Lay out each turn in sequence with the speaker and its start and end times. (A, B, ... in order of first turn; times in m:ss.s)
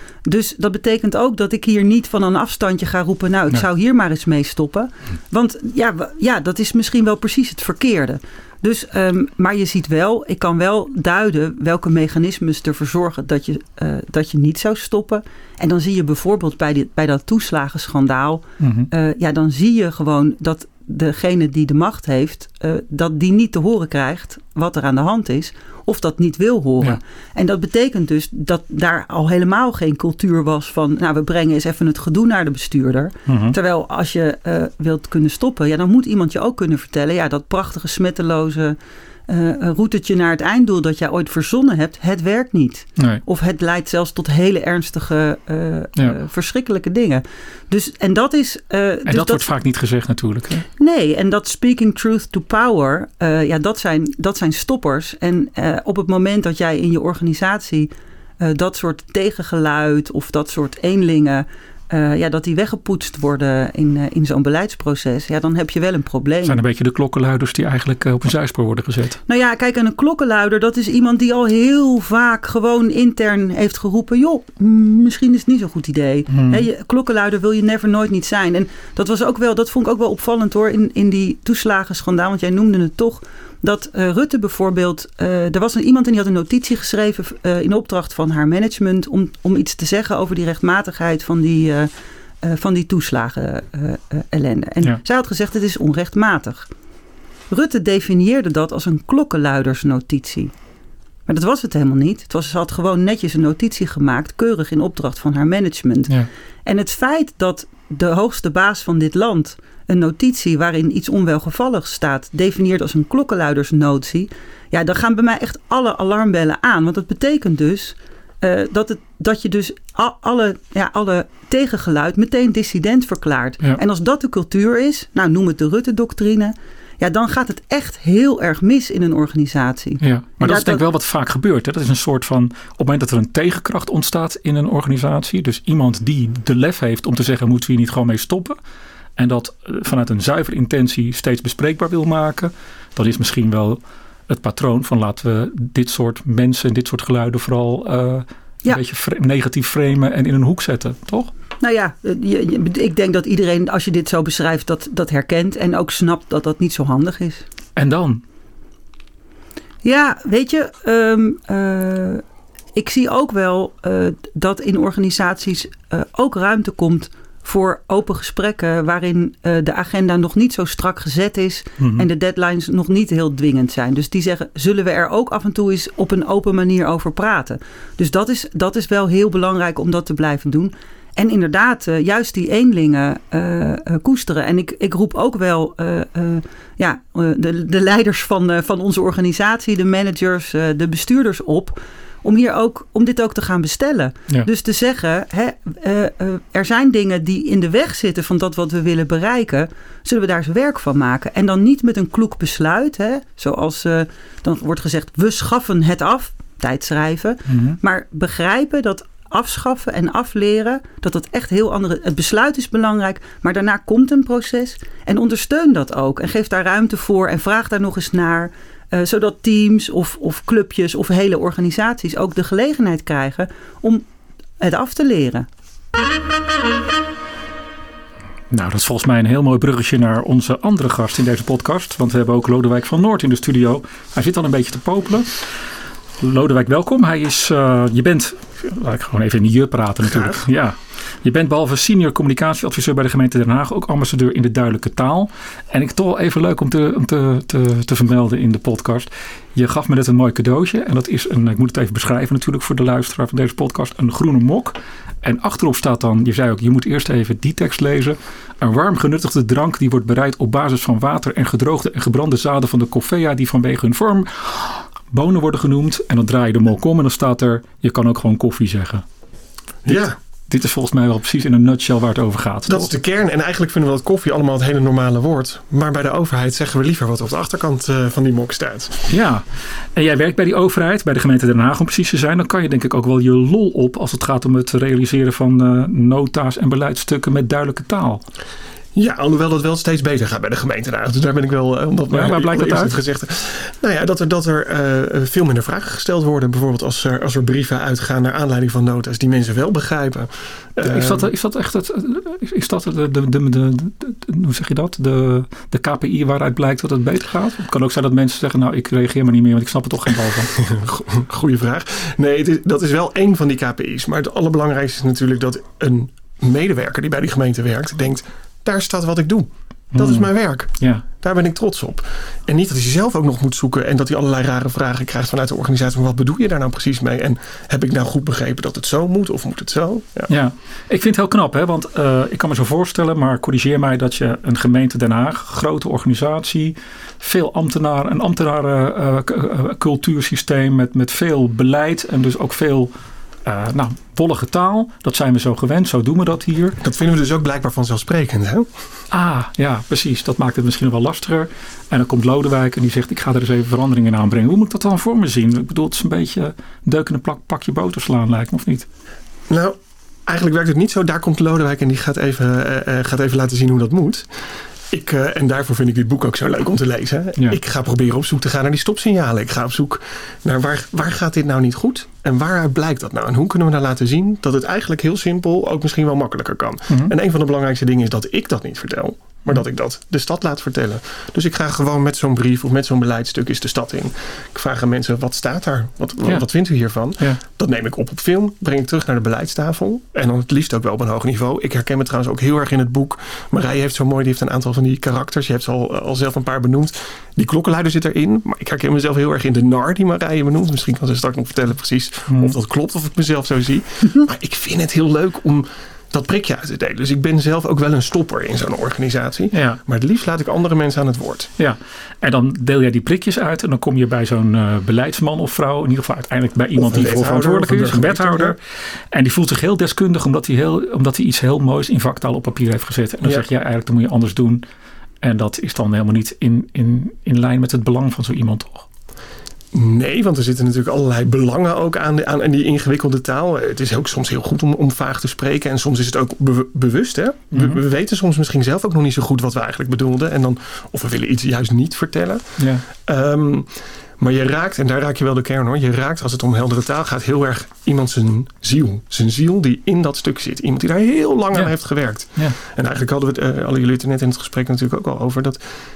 0:00.2-0:38.8 A
0:18.6-0:18.9 B
0:33.2-0:33.6 B
0:39.3-0:49.4 A
0:43.0-0:43.2 B
0:49.1-0:50.6 B
0:50.8-1:06.6 A
1:06.4-1:09.2 B
1:09.3-1:31.9 A
1:16.3-1:16.6 B
1:32.4-1:36.7 A
1:37.5-1:40.5 A
1:41.3-1:46.1 A
1:46.6-2:10.8 A
2:10.0-2:18.6 B
2:19.2-2:31.3 B
2:31.6-2:37.4 A
2:37.8-2:38.2 B
2:39.8-2:42.2 A
2:42.7-3:44.0 A
2:51.8-2:52.1 B
3:27.5-3:27.8 B
3:44.6-3:45.5 A
3:48.5-3:55.4 B
3:56.2-4:29.0 B
4:00.0-4:00.4 C
4:29.8-4:30.2 C
4:29.9-4:32.9 B
4:32.7-4:39.1 C
4:39.1-4:39.4 B
4:40.0-4:48.2 B
4:48.9-5:01.3 C
4:52.1-4:53.0 B
5:00.8-5:10.6 B
5:10.6-5:30.3 C
5:19.9-5:21.0 B
5:30.3-5:42.9 B
5:43.4-5:46.8 B
5:46.8-5:48.7 C
5:49.1-5:58.8 B
5:59.5-5:59.8 C
6:00.3-6:51.5 C
6:42.3-6:42.5 B
6:49.5-6:49.8 B
6:51.6-7:04.6 B
6:56.8-6:58.6 C
7:05.2-7:08.8 B
7:09.7-7:35.6 C
7:17.5-7:17.8 B
7:22.6-7:22.8 B
7:31.5-7:32.5 B